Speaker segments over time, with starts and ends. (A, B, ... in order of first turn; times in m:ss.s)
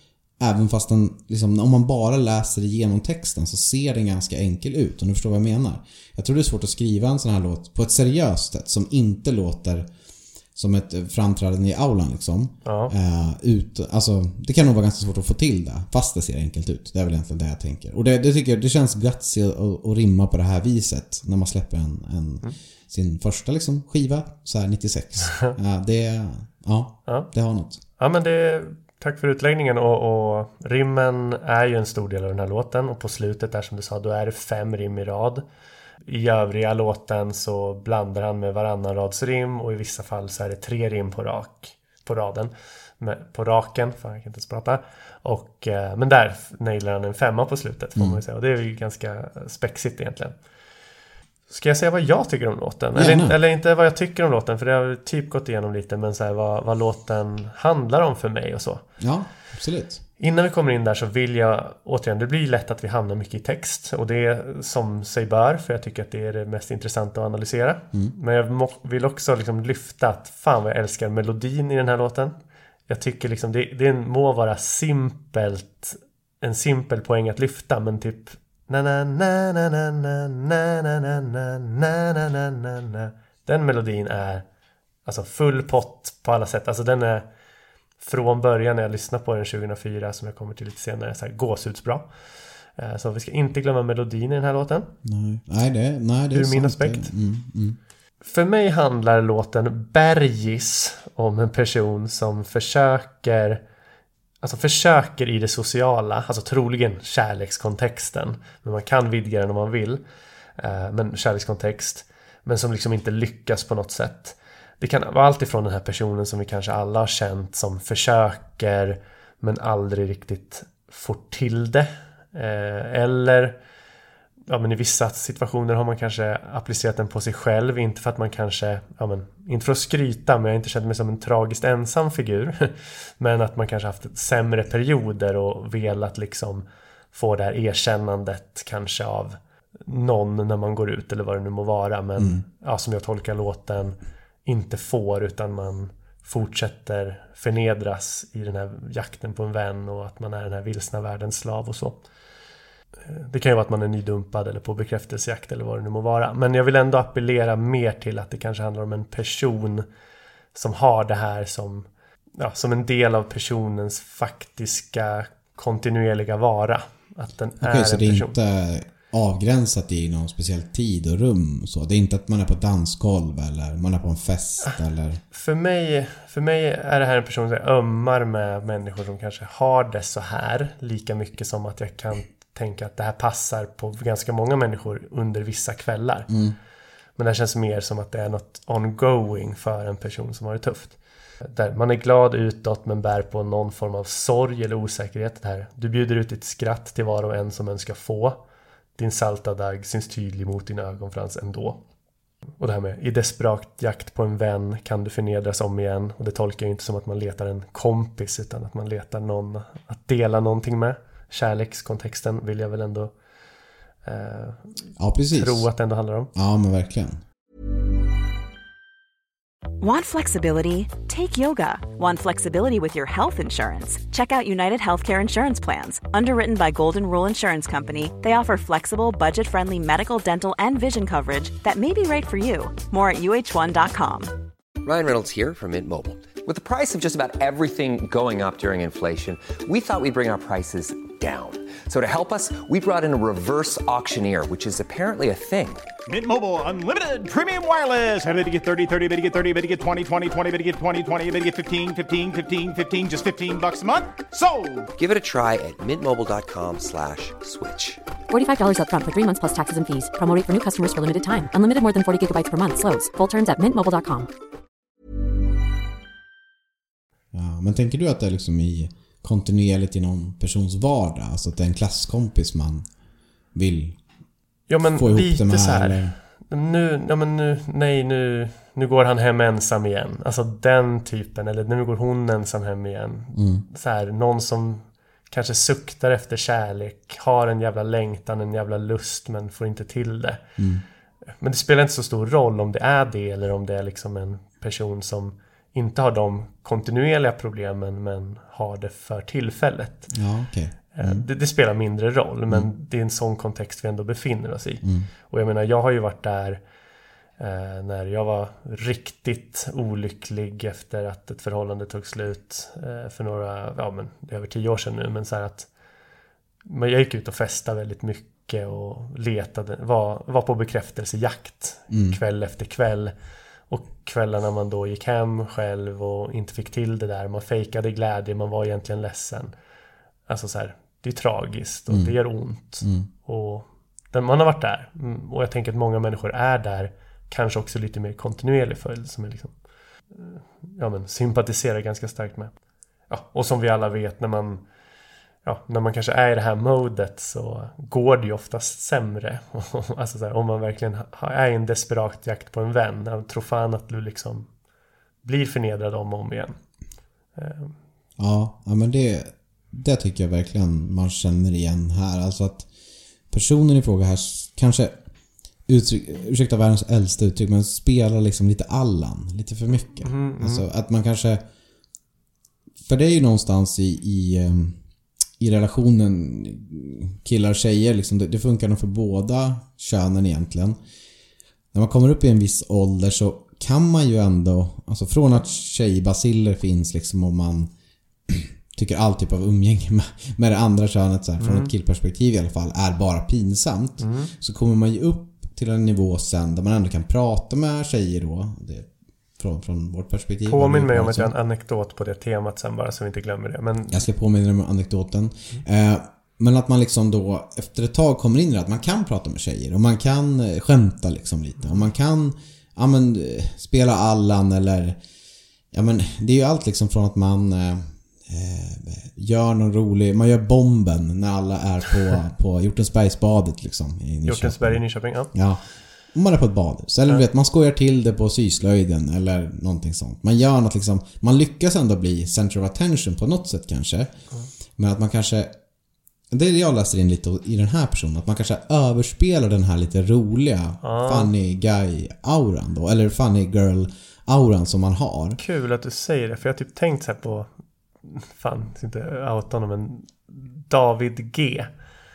0:00.4-0:09.9 A
0:10.5-0:27.8 A
0:12.6-0:12.9 B
0:25.2-0:25.5 B
0:28.0-0:35.4 B
0:36.0-0:50.4 B
0:51.5-0:58.8 B
0:52.9-0:53.4 A
0:59.0-1:00.0 A
1:00.2-1:12.3 B
1:12.9-1:24.4 B
1:25.0-1:27.2 B
1:28.0-1:32.1 B
1:32.8-1:34.9 B
1:35.0-1:37.8 A
1:36.3-1:37.1 B
1:38.2-1:43.6 B
1:44.4-1:50.0 B
1:50.6-2:03.6 B
2:04.5-2:32.0 B
2:22.2-2:22.4 A
2:33.0-2:39.8 B
2:40.5-2:41.9 B
2:42.4-2:48.3 B
2:47.6-2:55.2 A
2:55.3-3:06.3 B
3:06.3-3:06.6 A
3:07.2-3:18.4 B
3:19.0-3:21.8 B
3:22.6-3:33.1 B
3:34.0-3:34.7 B
3:35.0-3:35.7 A
3:35.3-3:36.3 B
3:36.3-3:37.2 A
3:39.8-3:54.3 C
3:54.8-4:05.8 D
4:06.1-4:14.9 E
4:15.0-4:18.0 D
4:18.3-4:24.3 F
4:27.3-4:32.8 A
4:33.5-4:34.0 A
4:34.7-4:50.4 B
4:34.8-4:36.1 A
4:43.3-4:43.6 A
4:50.6-4:50.8 A
4:51.4-5:00.1 B
5:00.1-5:01.2 A
5:00.9-5:06.6 B
5:04.8-5:05.1 A
5:07.4-5:15.7 B
5:16.6-5:23.1 B
5:21.9-5:22.2 A
5:23.7-5:29.5 B
5:30.3-5:39.5 B
5:31.9-5:32.2 A
5:32.8-5:33.1 A
5:40.1-5:42.5 B
5:43.1-5:44.6 B
5:45.4-5:54.5 B
5:55.2-5:56.6 B
5:57.4-5:57.7 B
5:58.2-6:02.7 A
6:03.3-6:05.0 A
6:05.6-6:11.4 A
6:10.0-6:10.6 B
6:12.8-6:14.8 A
6:15.4-6:20.8 A
6:21.7-6:27.7 A
6:28.3-6:41.3 A
6:31.4-6:31.7 B
6:34.0-6:34.3 B
6:40.4-6:44.0 B
6:43.9-6:55.0 A
6:55.7-7:14.1 A
7:04.2-7:05.3 B
7:14.8-7:15.5 A
7:16.3-7:25.4 A
7:20.8-7:21.3 B
7:25.4-7:27.5 B
7:28.0-7:31.7 B